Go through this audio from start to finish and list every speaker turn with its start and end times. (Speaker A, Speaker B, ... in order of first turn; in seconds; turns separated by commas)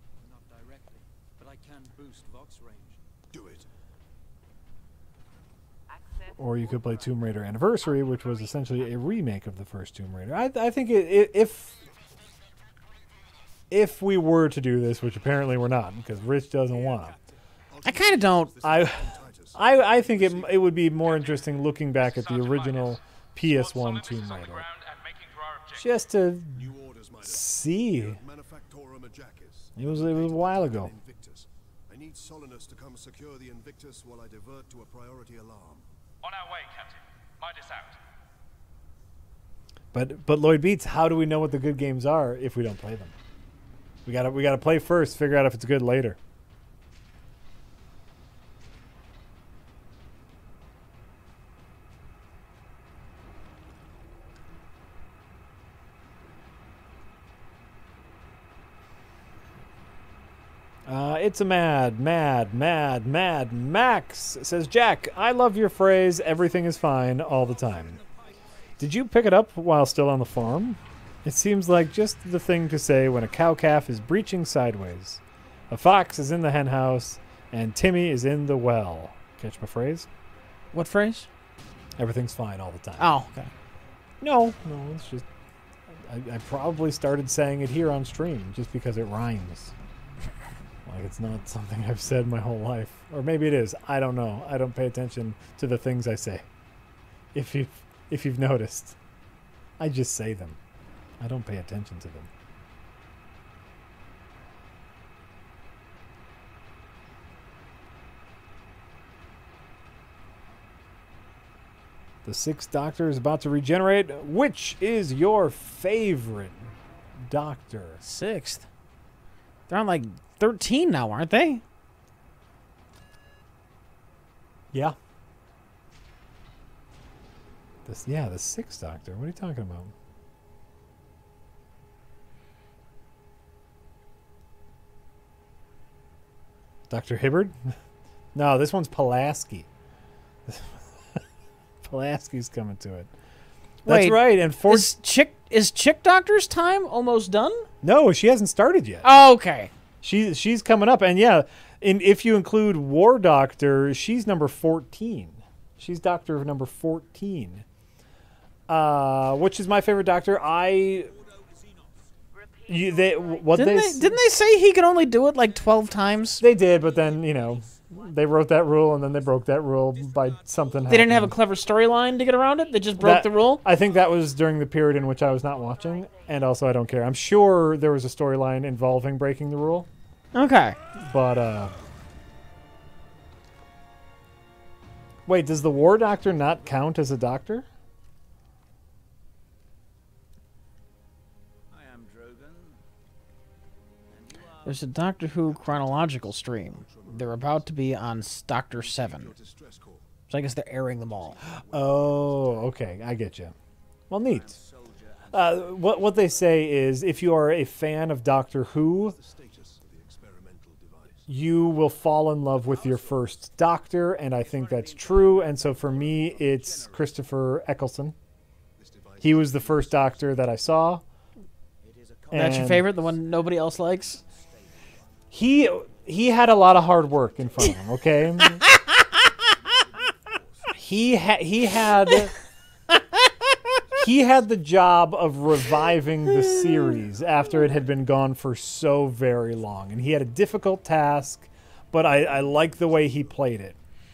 Speaker A: 0.2-3.0, Speaker B: 3.3-3.7, Speaker C: 5.9-8.8, Speaker D: 6.4-11.8, Speaker D: 13.7-17.1, Speaker B: 17.7-20.9, Speaker E: 17.8-18.5, Speaker D: 18.6-24.7, Speaker C: 21.0-21.4, Speaker C: 22.0-25.9, Speaker D: 25.8-26.7, Speaker B: 26.5-35.9, Speaker D: 27.2-28.2, Speaker D: 29.8-30.9, Speaker C: 36.2-38.0, Speaker D: 39.9-43.1, Speaker D: 44.1-46.2, Speaker D: 60.9-68.0, Speaker F: 67.4-68.4, Speaker D: 68.8-80.1, Speaker E: 80.7-81.3, Speaker D: 82.0-83.2, Speaker E: 83.0-83.5, Speaker D: 84.2-85.3, Speaker D: 86.0-89.7, Speaker D: 90.9-96.5, Speaker D: 97.3-99.0, Speaker D: 99.8-100.6, Speaker D: 101.2-102.3, Speaker D: 112.2-116.7, Speaker D: 117.3-118.0, Speaker E: 118.0-118.7, Speaker E: 119.7-121.6, Speaker D: 127.9-129.9, Speaker D: 136.9-137.7, Speaker D: 138.3-139.7, Speaker D: 140.5-141.2, Speaker D: 141.8-143.1, Speaker D: 143.8-144.9, Speaker E: 143.9-147.7, Speaker D: 147.8-149.1, Speaker E: 149.0-149.7, Speaker D: 150.0-157.7, Speaker D: 158.7-161.1, Speaker F: 160.7-162.2, Speaker C: 162.3-163.8, Speaker D: 162.7-164.2, Speaker E: 163.5-166.4, Speaker F: 165.5-172.0, Speaker D: 166.4-171.4, Speaker E: 170.9-173.7, Speaker D: 173.0-179.9, Speaker C: 175.3-176.4, Speaker E: 180.3-180.8, Speaker D: 181.0-181.7, Speaker D: 185.3-187.7, Speaker F: 191.7-192.8, Speaker F: 194.1-194.9, Speaker E: 194.7-199.3, Speaker B: 196.5-197.8, Speaker B: 198.8-200.1, Speaker E: 200.3-201.4, Speaker B: 201.1-202.6, Speaker D: 201.6-203.6, Speaker D: 204.1-204.6, Speaker F: 204.2-206.4, Speaker D: 205.3-209.2, Speaker B: 208.5-211.3, Speaker D: 211.3-218.2, Speaker F: 212.7-213.4, Speaker F: 214.4-217.2, Speaker B: 218.8-220.5, Speaker D: 219.2-221.0, Speaker F: 221.8-230.8, Speaker D: 222.3-222.9, Speaker E: 222.3-224.2, Speaker D: 225.3-228.6, Speaker D: 230.8-232.3, Speaker F: 234.0-234.3, Speaker D: 234.0-243.8, Speaker E: 236.4-237.0, Speaker B: 243.0-243.4